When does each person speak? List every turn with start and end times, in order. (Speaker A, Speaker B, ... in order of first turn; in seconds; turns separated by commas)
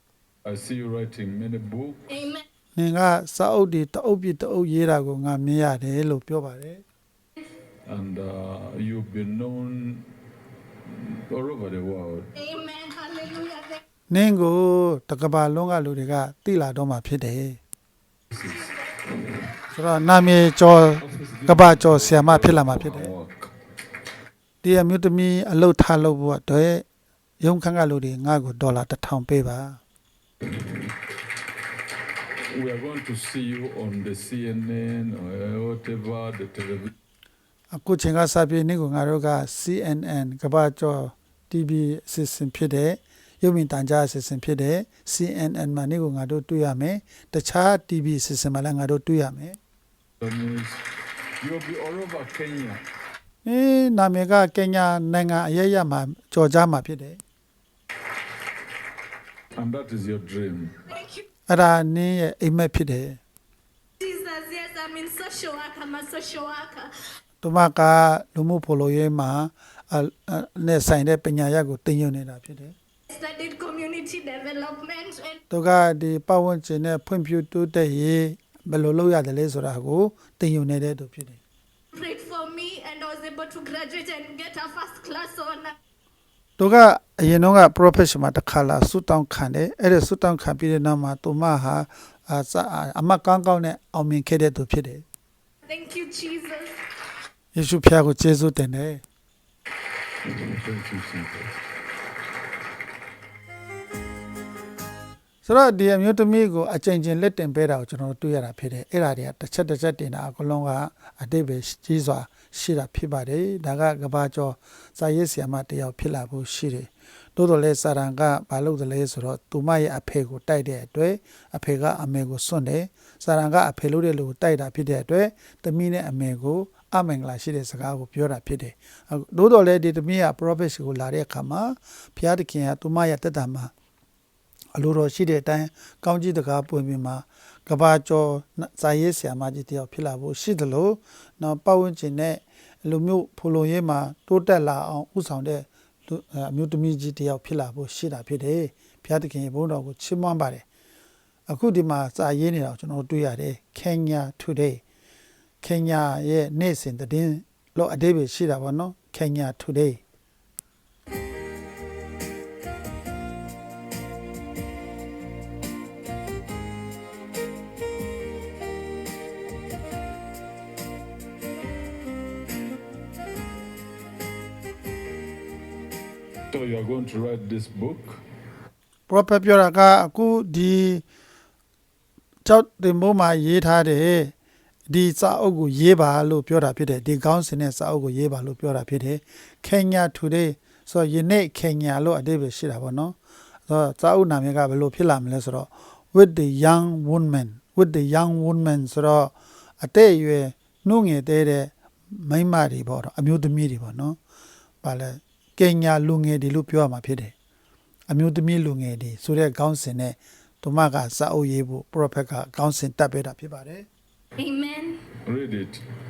Speaker A: 0.4-2.1, Speaker B: 2.1-2.5, Speaker C: 2.8-6.8, Speaker A: 7.8-10.1, Speaker A: 10.9-12.3, Speaker B: 12.3-13.8, Speaker C: 14.1-17.6, Speaker A: 18.3-18.7, Speaker C: 19.7-23.1, Speaker A: 21.0-23.5, Speaker C: 24.6-26.9, Speaker C: 27.4-29.8, Speaker A: 32.5-36.9, Speaker C: 37.7-49.6, Speaker A: 50.2-50.8, Speaker A: 51.4-52.8, Speaker C: 53.5-57.2, Speaker A: 59.5-60.8, Speaker B: 60.9-61.2, Speaker C: 61.5-63.2, Speaker B: 64.0-66.9, Speaker C: 67.4-72.8, Speaker B: 73.1-75.4, Speaker C: 75.5-81.4, Speaker B: 81.9-85.8, Speaker C: 86.6-95.0, Speaker B: 95.7-96.8, Speaker C: 97.5-99.0, Speaker A: 100.3-101.6, Speaker C: 105.5-133.7, Speaker C: 134.8-150.7, Speaker C: 151.5-154.8, Speaker C: 155.6-160.0, Speaker A: 176.5-178.2, Speaker C: 179.1-181.0, Speaker C: 182.4-184.3, Speaker C: 184.9-193.2, Speaker C: 193.7-204.2, Speaker C: 204.8-207.3, Speaker C: 208.1-213.9, Speaker B: 214.4-215.0, Speaker A: 215.3-215.8